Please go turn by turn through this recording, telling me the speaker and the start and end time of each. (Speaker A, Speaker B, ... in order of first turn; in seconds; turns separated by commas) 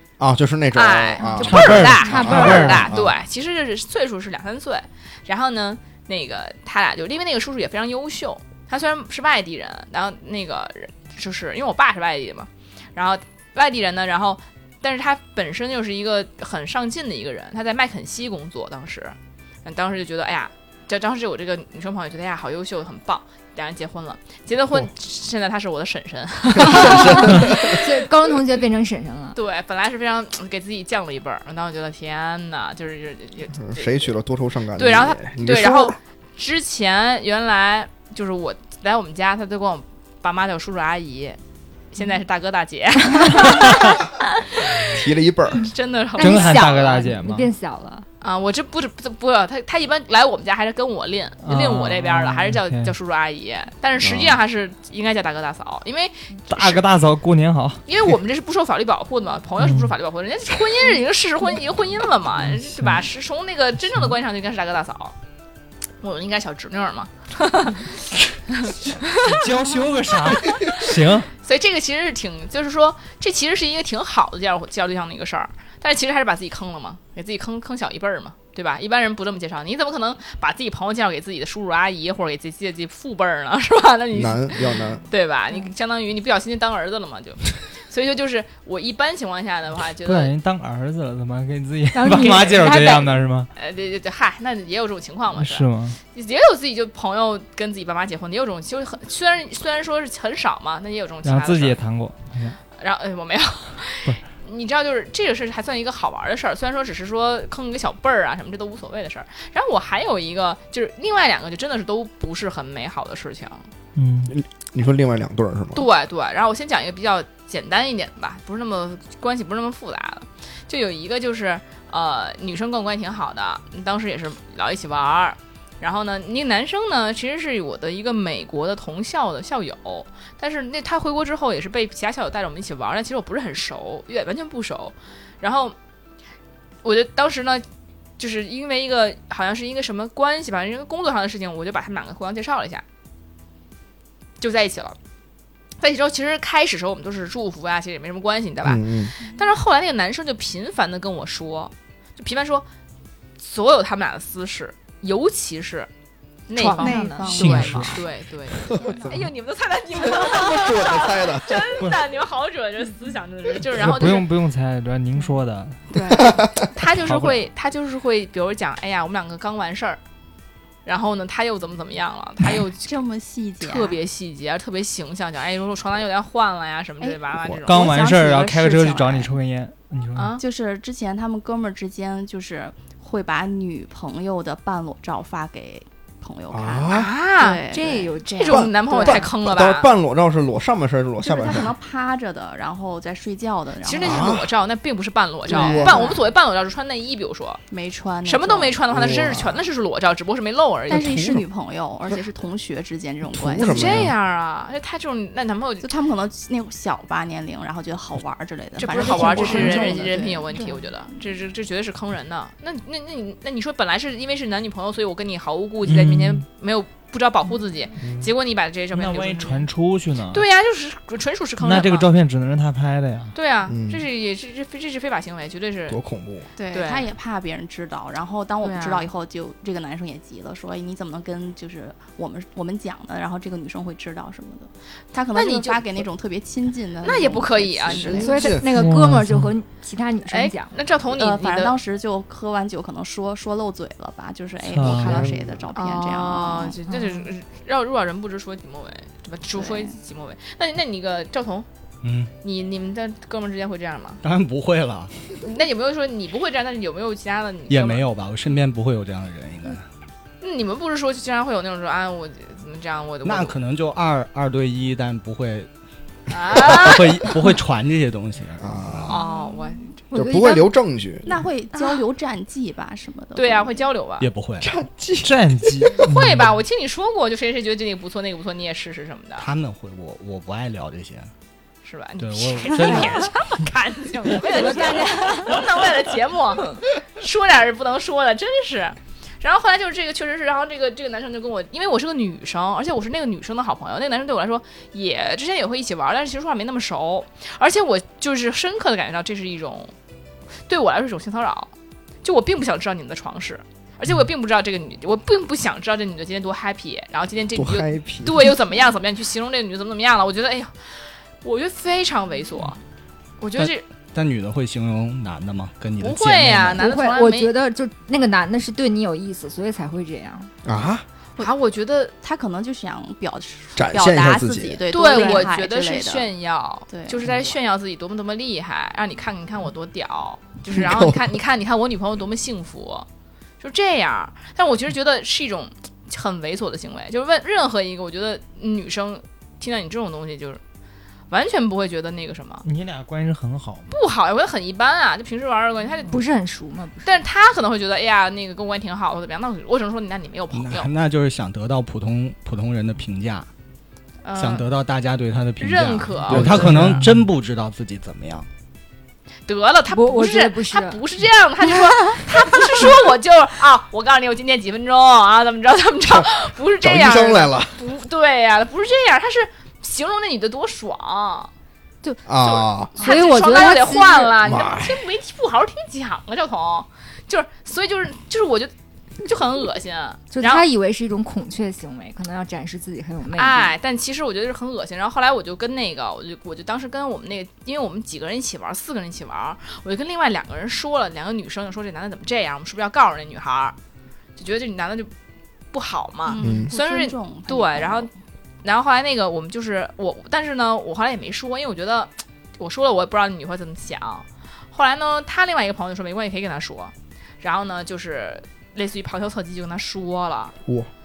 Speaker A: 0.2-3.1, Speaker B: 0.7-27.7, Speaker C: 1.2-2.8, Speaker D: 1.5-2.8, Speaker A: 26.5-27.8, Speaker C: 26.6-29.4, Speaker B: 29.3-34.1, Speaker A: 33.5-36.0, Speaker B: 34.8-41.4, Speaker B: 41.9-44.0, Speaker D: 43.4-43.9, Speaker B: 44.6-45.0, Speaker A: 44.8-45.7, Speaker B: 45.5-46.9, Speaker C: 46.2-48.0, Speaker D: 46.2-47.5, Speaker B: 48.2-56.8, Speaker D: 51.4-52.9, Speaker A: 54.0-54.4, Speaker D: 56.5-57.8, Speaker B: 57.9-65.2, Speaker D: 59.6-59.9, Speaker D: 62.4-63.0, Speaker B: 66.0-69.5, Speaker D: 69.2-71.3, Speaker B: 70.2-70.9, Speaker B: 71.4-90.3, Speaker A: 84.1-85.0, Speaker D: 90.0-93.5, Speaker C: 91.9-93.1, Speaker B: 92.1-101.8, Speaker D: 95.4-96.0, Speaker D: 101.2-102.6, Speaker B: 102.8-113.7, Speaker D: 114.0-114.3, Speaker A: 114.3-115.9, Speaker B: 115.7-135.7, Speaker B: 136.8-137.6, Speaker B: 138.2-142.8, Speaker B: 144.4-145.0, Speaker B: 145.8-152.7, Speaker A: 148.6-149.1, Speaker B: 153.4-155.9, Speaker B: 156.5-164.3, Speaker C: 156.5-157.8, Speaker E: 156.7-158.1, Speaker D: 157.3-158.0, Speaker E: 158.7-159.3, Speaker A: 158.7-159.2, Speaker A: 160.0-161.7, Speaker D: 163.7-167.4, Speaker C: 165.9-166.3, Speaker B: 166.7-170.0, Speaker B: 170.8-172.9, Speaker E: 172.8-174.0, Speaker B: 173.6-177.9, Speaker E: 177.0-179.3, Speaker D: 177.7-180.4, Speaker B: 180.1-180.4, Speaker E: 180.4-188.2, Speaker A: 186.5-187.1, Speaker B: 186.9-187.6, Speaker C: 187.7-189.0, Speaker B: 188.2-189.9, Speaker A: 188.4-191.7, Speaker E: 188.9-189.2, Speaker E: 191.2-194.3, Speaker B: 193.8-197.6, Speaker A: 194.0-194.5, Speaker E: 195.5-196.2, Speaker A: 195.5-196.1, Speaker E: 197.7-198.8, Speaker B: 198.2-201.3, Speaker A: 198.9-199.6, Speaker E: 200.9-204.1, Speaker A: 200.9-201.4, Speaker A: 203.3-204.1, Speaker B: 203.6-205.9, Speaker E: 205.8-211.2, Speaker B: 208.8-219.7, Speaker A: 209.0-210.0, Speaker D: 215.8-216.4, Speaker A: 218.0-218.3, Speaker D: 218.9-220.5, Speaker B: 220.3-222.1, Speaker D: 221.6-223.3, Speaker B: 223.3-226.0, Speaker A: 223.7-224.0, Speaker A: 225.9-226.5, Speaker E: 226.6-238.4, Speaker B: 226.7-227.1, Speaker B: 228.6-229.1, Speaker B: 235.3-235.8, Speaker B: 237.0-238.4, Speaker A: 237.8-238.7, Speaker C: 238.2-240.7, Speaker D: 238.7-239.5, Speaker B: 240.3-241.8, Speaker E: 241.1-246.8, Speaker D: 244.6-245.3, Speaker A: 244.8-245.6, Speaker B: 245.7-251.7, Speaker C: 246.9-247.1, Speaker E: 249.6-249.9, Speaker F: 252.0-252.3, Speaker B: 252.4-254.2, Speaker F: 254.2-255.2, Speaker B: 255.4-258.0, Speaker F: 257.7-259.8, Speaker B: 260.4-263.5, Speaker F: 263.2-265.7, Speaker B: 266.3-267.3, Speaker F: 266.5-269.1, Speaker A: 268.6-269.1, Speaker B: 269.1-270.0, Speaker E: 269.1-269.9, Speaker C: 270.1-270.7, Speaker A: 270.1-271.3, Speaker E: 271.2-273.8, Speaker B: 273.3-274.3, Speaker F: 274.2-274.7, Speaker A: 274.6-275.9, Speaker D: 275.2-276.6, Speaker B: 276.1-279.5, Speaker F: 279.4-281.3, Speaker B: 281.8-299.9, Speaker F: 282.2-283.3, Speaker C: 282.7-283.3, Speaker C: 284.4-285.6, Speaker B: 300.7-301.7, Speaker B: 302.2-312.8, Speaker A: 307.5-308.5, Speaker B: 313.4-313.9, Speaker F: 313.6-316.8, Speaker B: 316.0-317.5, Speaker C: 316.8-320.5, Speaker A: 320.6-321.0, Speaker B: 321.4-322.1, Speaker E: 322.2-326.3, Speaker A: 323.8-324.9, Speaker B: 324.9-333.1, Speaker C: 325.1-325.5, Speaker E: 326.9-327.2, Speaker A: 330.7-331.2, Speaker B: 333.6-340.6, Speaker B: 341.3-342.6, Speaker D: 342.6-343.9, Speaker B: 343.9-346.2, Speaker C: 346.1-347.2, Speaker B: 347.0-350.9, Speaker F: 350.5-353.5, Speaker B: 354.2-354.7, Speaker F: 354.4-358.5, Speaker B: 355.6-357.0, Speaker A: 356.3-357.1, Speaker B: 359.5-371.5, Speaker C: 359.9-361.0, Speaker A: 366.8-367.8, Speaker A: 372.2-373.0, Speaker B: 372.4-380.6, Speaker C: 372.9-374.3, Speaker A: 374.4-375.0, Speaker C: 380.3-383.7, Speaker B: 383.3-393.8, Speaker B: 394.4-395.1, Speaker B: 395.7-398.1, Speaker E: 396.3-398.1, Speaker A: 396.4-396.7, Speaker B: 398.6-410.5, Speaker A: 410.6-410.9